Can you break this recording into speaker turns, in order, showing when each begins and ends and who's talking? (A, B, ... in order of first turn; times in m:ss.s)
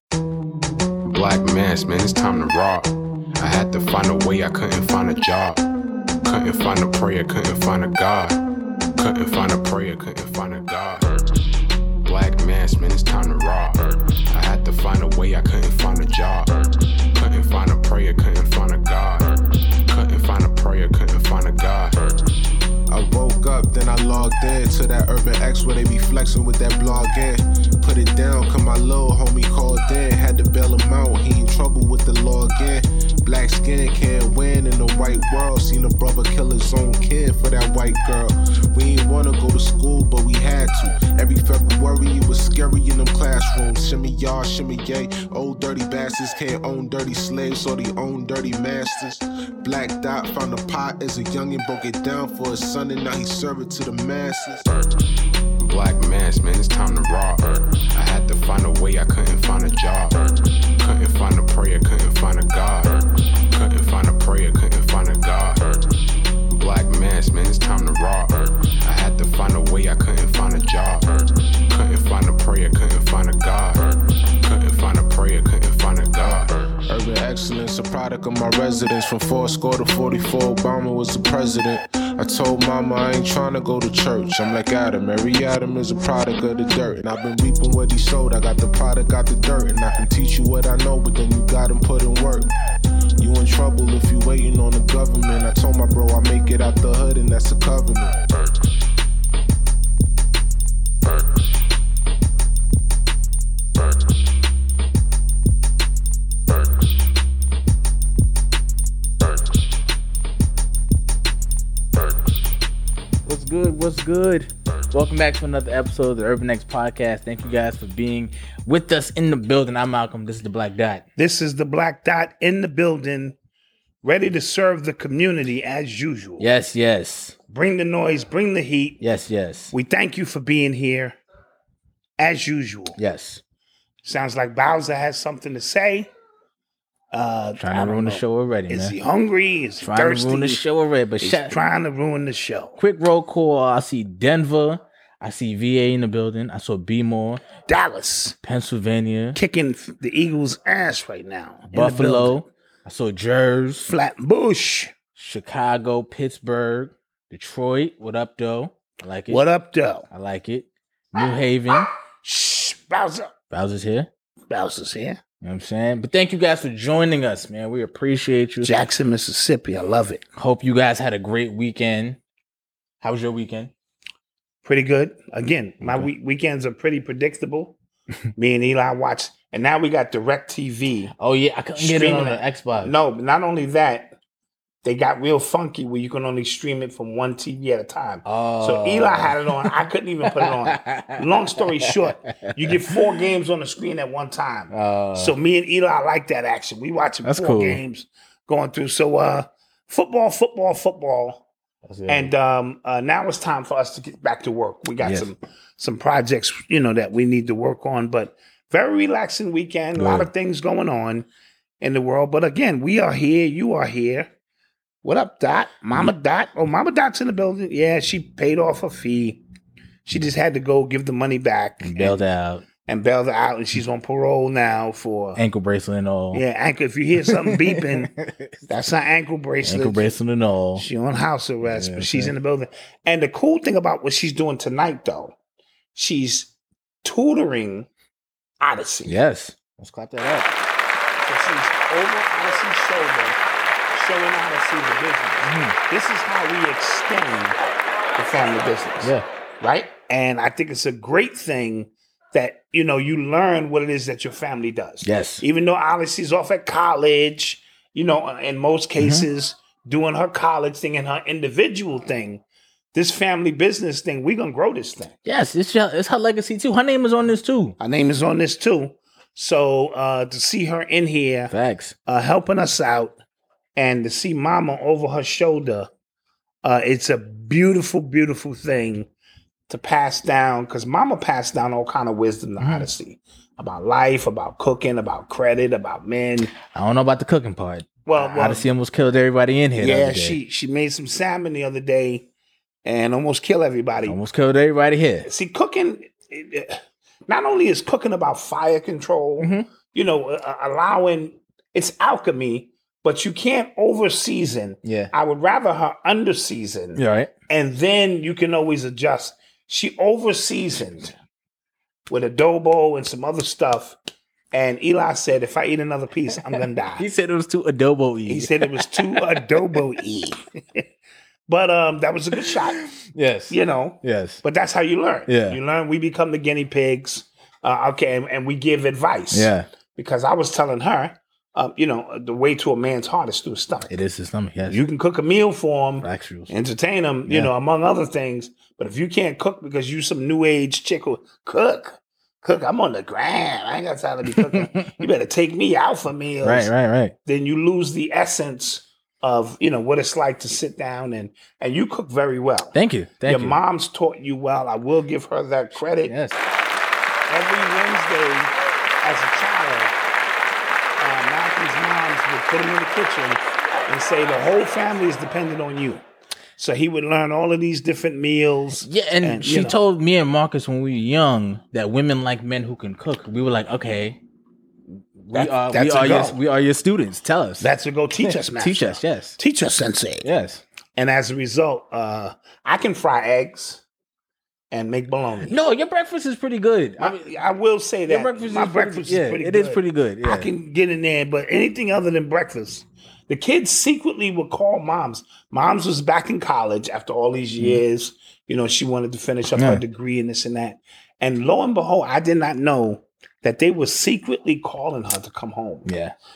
0:01.1-0:05.6 A
0:06.2-0:08.4 A
0:09.0-0:11.2 A
0:12.0-0:16.6 A
0:17.1-0:19.3 A
0:19.9-0:22.0 A
0:22.9-0:54.7 B
0:55.6-1:00.2 A
1:00.8-1:05.8 A
1:06.5-1:16.5 A
1:16.9-1:32.5 B
1:33.2-1:38.2 B
1:53.2-2:01.0 C
2:01.2-2:03.4 D
2:04.0-2:06.5 D
2:06.4-2:07.3 C
2:07.5-2:09.0 D
2:09.0-2:09.7 C
2:09.7-2:11.2 D
2:12.2-2:13.0 D
2:13.0-2:13.4 C
2:14.0-2:16.1 D
2:17.1-2:20.6 D
2:17.6-2:18.9 C
2:19.8-2:21.6 C
2:21.2-2:22.8 D
2:22.8-2:27.4 C
2:27.7-2:28.4 D
2:28.4-2:29.4 C
2:29.4-2:32.4 D
2:31.7-2:33.9 C
2:33.9-2:34.9 D
2:35.2-2:39.4 C
2:39.3-2:40.1 D
2:40.1-2:41.9 C
2:41.8-2:43.3 D
2:43.5-2:44.1 C
2:44.5-2:45.2 D
2:45.4-2:48.7 C
2:48.6-2:50.2 D
2:50.4-2:52.2 C
2:53.0-2:53.7 C
2:54.6-2:57.8 D
2:55.8-2:56.1 C
2:58.4-3:01.1 D
3:01.2-3:02.9 C
3:01.8-3:04.2 D
3:04.8-3:21.4 D
3:08.2-3:09.7 C
3:10.3-3:11.9 C
3:14.7-3:15.3 C
3:17.2-3:17.8 C
3:21.8-3:22.3 C
3:22.1-3:31.3 D
3:25.0-3:25.3 C
3:30.0-3:30.3 C
3:31.8-3:34.3 D
3:35.0-3:39.4 D
3:40.1-3:42.2 D
3:41.8-3:42.6 C
3:42.9-3:45.4 D
3:45.4-3:46.4 C
3:46.3-3:48.1 D
3:47.4-3:48.5 C
3:48.7-3:50.0 D
3:49.6-3:50.8 C
3:50.8-3:55.3 D
3:51.6-3:52.3 C
3:55.9-3:56.5 D
3:57.0-3:57.9 D
3:58.6-3:59.2 D
3:59.0-4:00.5 C
4:01.2-4:03.4 D
4:03.9-4:22.4 D
4:05.4-4:05.8 C
4:15.0-4:15.4 C
4:19.0-4:19.2 C
4:22.9-4:25.2 D
4:25.2-4:27.8 C
4:27.8-4:31.5 D
4:31.5-4:31.9 C
4:32.1-4:33.1 D
4:33.8-4:35.9 D
4:36.6-4:39.1 D
4:39.7-4:46.5 D
4:42.6-4:42.9 C
4:46.7-4:50.4 C
4:48.1-4:48.7 D
4:49.8-4:52.3 D
4:52.8-4:54.2 D
4:54.1-4:55.3 C
4:55.2-5:11.1 D
4:59.4-4:59.7 C
5:04.8-5:05.1 C
5:07.0-5:07.3 C
5:12.1-5:13.9 D
5:14.5-5:17.1 D
5:17.0-5:19.8 C
5:18.3-5:20.8 D
5:21.5-5:22.8 D
5:22.4-5:24.4 C
5:23.5-5:33.9 D
5:25.3-5:25.6 C
5:29.3-5:29.7 C
5:33.9-5:34.8 C
5:34.7-5:46.7 D
5:36.0-5:36.5 C
5:44.4-5:44.9 C
5:46.4-5:47.1 C
5:47.2-5:56.1 D
5:52.7-5:53.6 C
5:56.0-5:56.4 C
5:57.3-5:59.9 D
6:01.0-6:06.0 D
6:06.6-6:09.8 D
6:08.8-6:14.2 C
6:15.3-6:17.7 C
6:15.3-6:16.4 D
6:17.6-6:20.2 D
6:18.2-6:19.4 C
6:20.2-6:20.6 C
6:21.0-6:23.8 D
6:24.7-6:25.6 D
6:25.5-6:27.3 C
6:27.0-6:45.9 D
6:28.1-6:30.5 C
6:39.6-6:39.8 C
6:45.8-6:46.1 C